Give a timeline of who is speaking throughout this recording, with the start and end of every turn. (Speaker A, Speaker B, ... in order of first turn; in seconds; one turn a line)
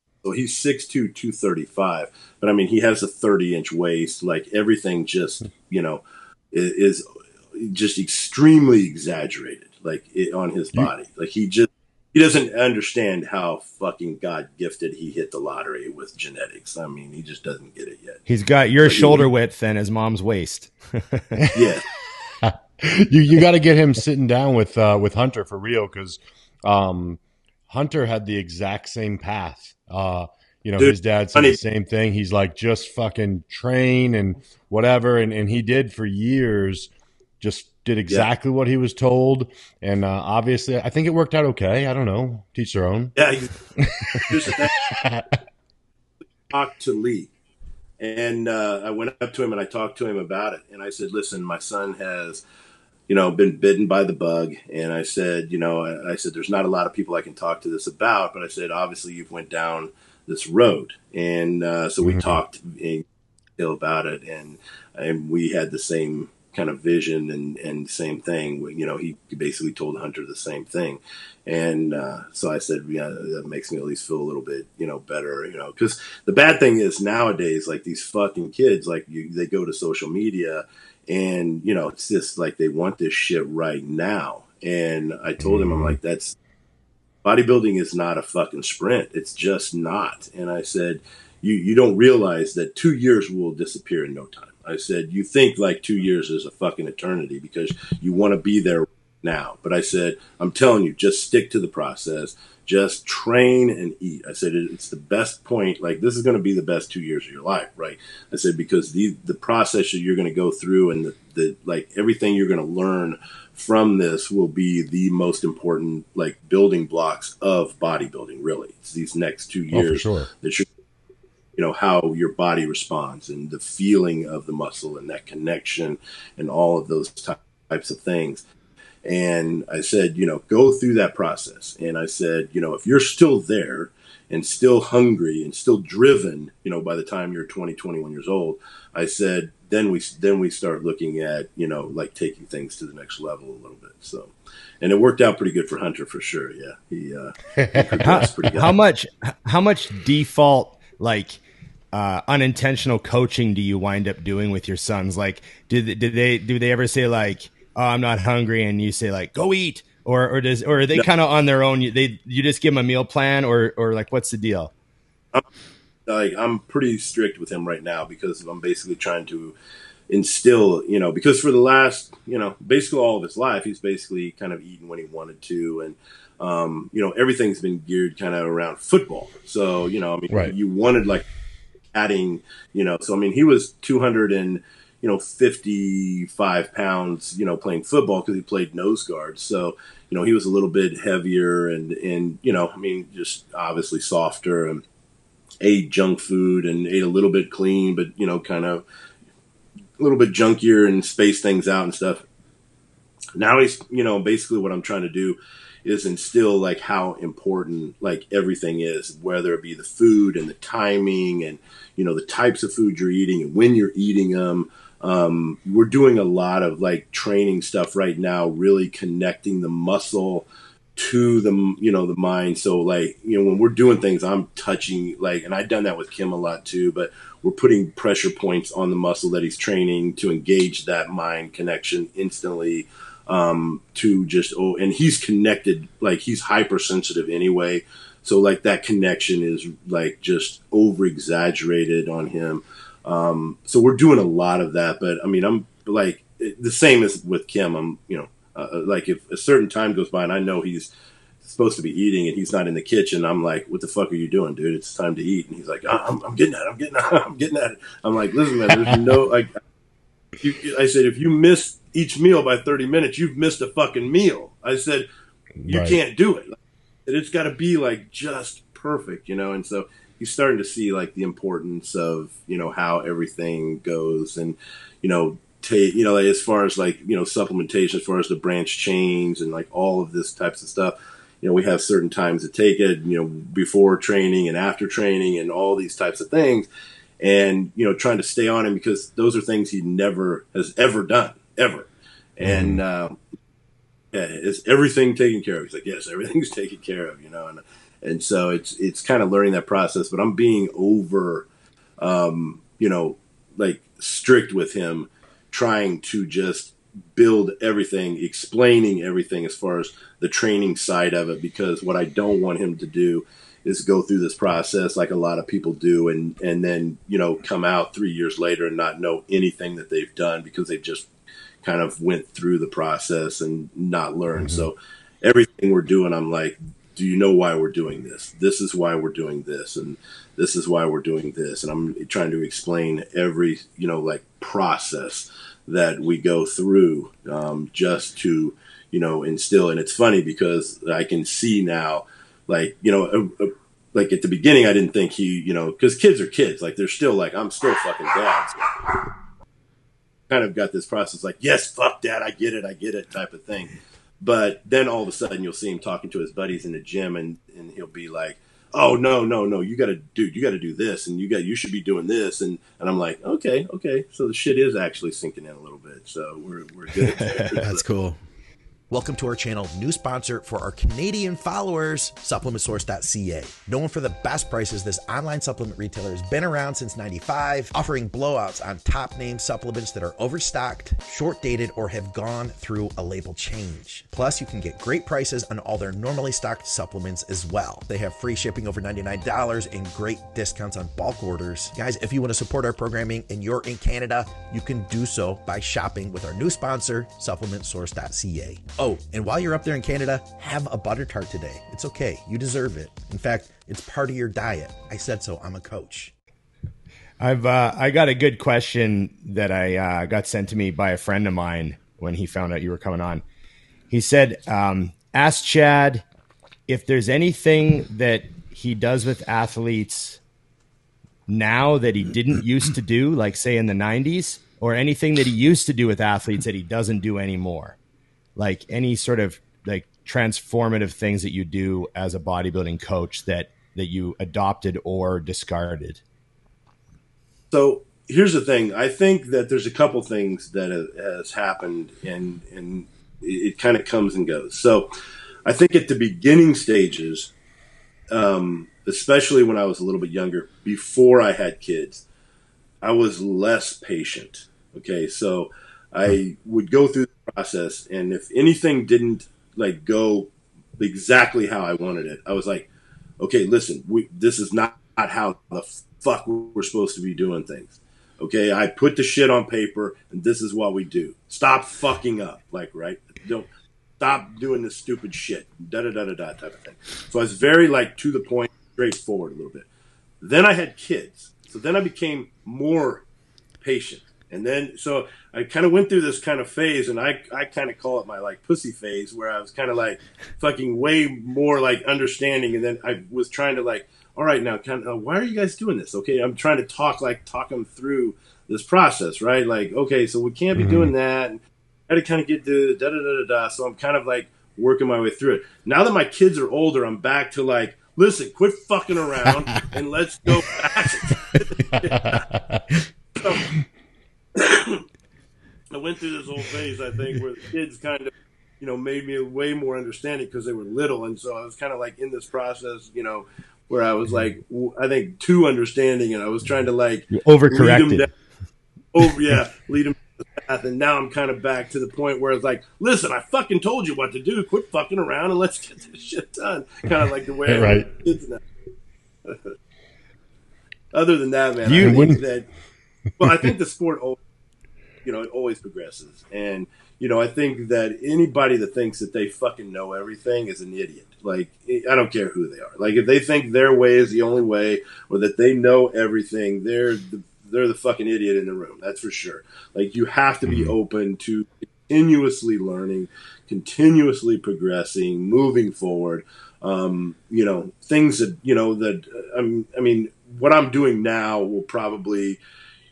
Speaker A: 0.2-18.2
Speaker B: 18.3-21.5
Speaker A: 18.8-19.3
Speaker A: 21.5-21.8
Speaker C: 22.4-43.1
Speaker A: 30.8-31.6
Speaker A: 43.1-43.5
Speaker C: 43.8-45.4
Speaker A: 44.2-44.8
Speaker A: 46.5-47.3
Speaker A: 48.0-52.4
Speaker A: 53.1-63.0
Speaker C: 62.0-62.3
Speaker A: 63.6-86.4
Speaker C: 85.4-86.0
Speaker A: 87.2-120.7
Speaker C: 119.7-120.3
Speaker A: 121.5-128.4
Speaker A: 129.0-148.7
Speaker C: 147.6-148.1
Speaker B: 148.0-151.4
Speaker B: 151.9-164.7
Speaker A: 166.1-169.5
Speaker A: 170.1-181.3
Speaker A: 181.9-194.8
Speaker A: 195.6-198.8
Speaker A: 200.0-202.2
Speaker A: 203.3-250.9
Speaker A: 251.4-259.6
Speaker A: 260.4-265.1
Speaker C: 265.6-266.0
Speaker A: 265.7-286.7
Speaker A: 287.2-293.2
Speaker C: 292.4-292.8
Speaker A: 294.1-301.5
Speaker A: 302.0-321.1
Speaker A: 321.6-348.6
Speaker C: 324.4-324.7
Speaker A: 350.3-367.8
Speaker B: 367.2-367.5
Speaker D: 367.6-368.2
Speaker D: 368.9-406.1
Speaker B: 407.2-413.2
Speaker B: 413.9-416.0
Speaker B: 416.7-420.2
Speaker B: 421.3-427.8
Speaker B: 428.4-436.0
Speaker A: 437.5-444.9
Speaker A: 445.4-447.3
Speaker A: 448.1-452.0
Speaker A: 452.8-479.7
Speaker A: 480.2-483.1
Speaker A: 483.6-512.2
Speaker C: 500.6-500.9
Speaker C: 511.8-512.6
Speaker A: 513.2-513.5
Speaker A: 514.4-514.8
Speaker A: 515.7-528.1
Speaker B: 527.1-528.0
Speaker A: 528.9-538.4
Speaker C: 537.5-537.9
Speaker A: 539.2-539.5
Speaker A: 540.9-542.5
Speaker B: 541.6-542.1
Speaker C: 541.8-542.2
Speaker A: 543.2-544.2
Speaker A: 545.0-572.4